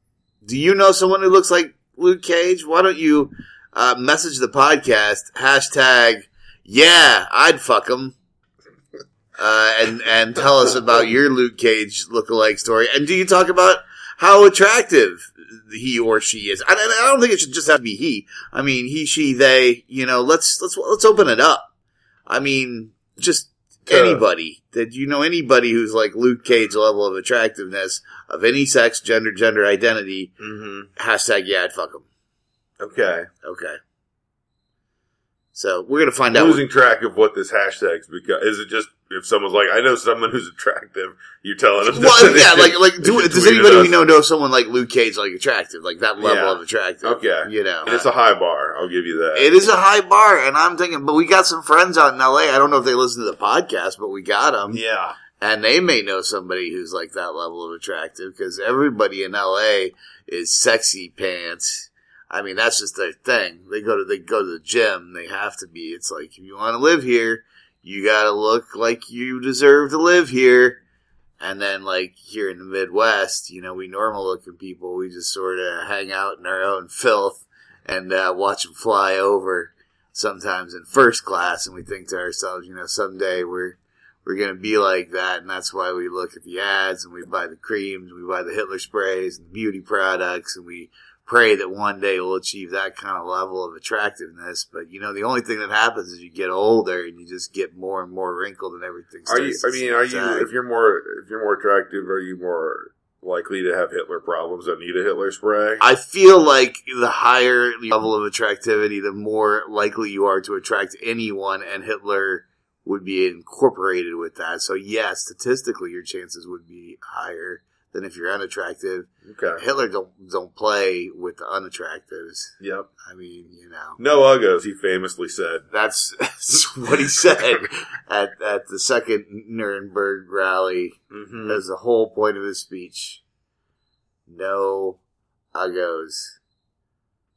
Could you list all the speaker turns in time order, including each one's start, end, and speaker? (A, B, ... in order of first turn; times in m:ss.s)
0:00.4-0:08.1 A
0:09.4-0:21.7 A
0:22.3-0:30.3 A
0:23.9-0:24.2 B
0:30.4-0:30.9 B
0:31.0-0:32.0 A
0:32.8-0:33.3 B
0:33.4-0:33.8 A
0:35.5-0:36.6 A
0:36.3-0:44.0 B
0:41.9-0:48.0 A
0:46.2-0:49.5 B
0:49.3-0:54.8 A
0:54.7-0:55.2 B
0:55.4-1:10.8 A
1:11.4-1:40.5 A
1:39.3-1:45.8 B
1:45.8-2:04.0 A
1:59.2-1:59.6 B
2:02.6-2:02.9 B
2:04.0-2:05.6 B
2:05.7-2:13.2 A
2:11.1-2:11.6 B
2:14.3-2:15.0 A
2:15.5-2:16.4 A